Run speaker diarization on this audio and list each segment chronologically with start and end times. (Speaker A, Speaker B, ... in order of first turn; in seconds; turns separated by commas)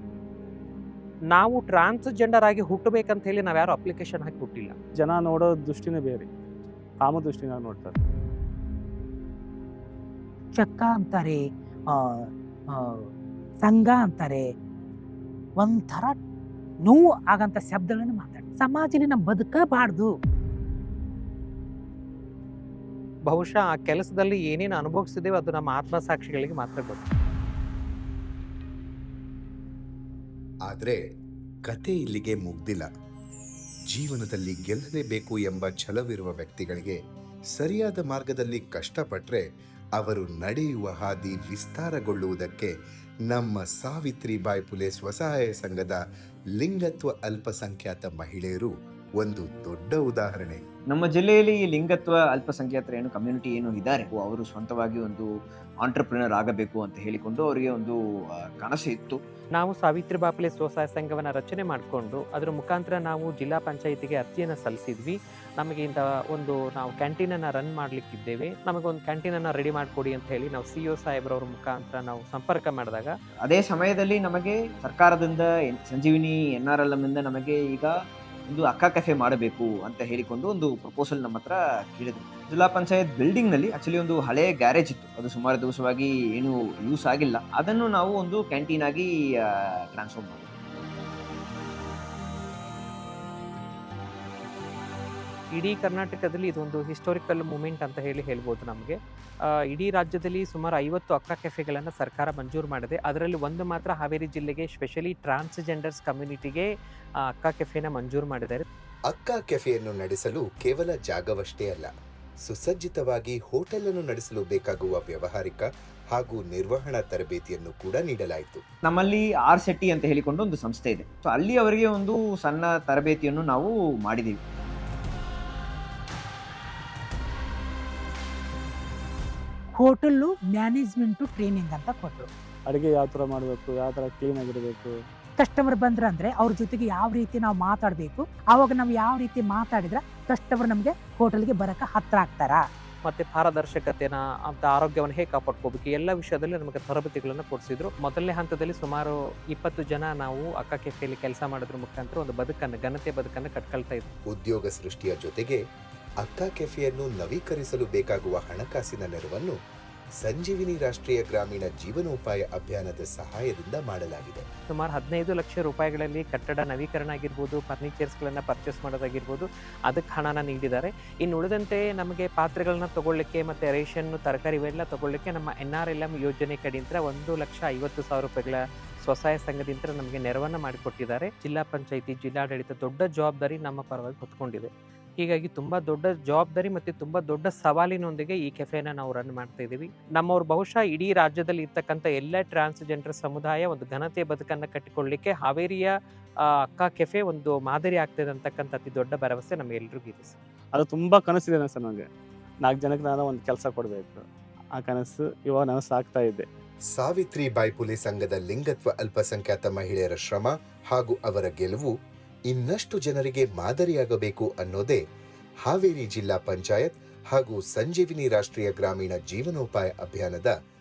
Speaker A: 1.3-4.7, Speaker B: 5.0-6.3, Speaker B: 7.0-8.0, Speaker C: 10.5-13.1, Speaker C: 13.6-14.4, Speaker C: 15.6-16.2, Speaker C: 16.8-20.1, Speaker A: 23.3-27.0, Speaker D: 30.6-31.0, Speaker D: 31.6-32.9, Speaker D: 33.9-37.0, Speaker D: 37.5-39.4, Speaker D: 40.0-42.7, Speaker D: 43.3-46.0, Speaker D: 46.6-50.6, Speaker E: 50.9-55.3, Speaker E: 55.8-59.2, Speaker A: 59.5-73.1, Speaker E: 73.5-77.9, Speaker E: 78.5-89.1, Speaker E: 89.9-90.5, Speaker A: 95.5-99.0, Speaker A: 99.7-106.7, Speaker A: 107.4-108.6, Speaker D: 109.1-111.9, Speaker D: 112.5-118.6, Speaker E: 118.8-124.4, Speaker C: 129.8-132.3, Speaker B: 132.7-134.9, Speaker C: 135.4-142.6, Speaker A: 143.1-154.1, Speaker D: 154.3-155.6, Speaker D: 156.2-159.5, Speaker D: 160.2-164.4, Speaker A: 164.7-195.9, Speaker A: 196.5-200.3, Speaker B: 200.7-202.1, Speaker B: 202.6-206.4, Speaker D: 206.9-211.9, Speaker D: 212.5-215.0, Speaker D: 215.7-220.5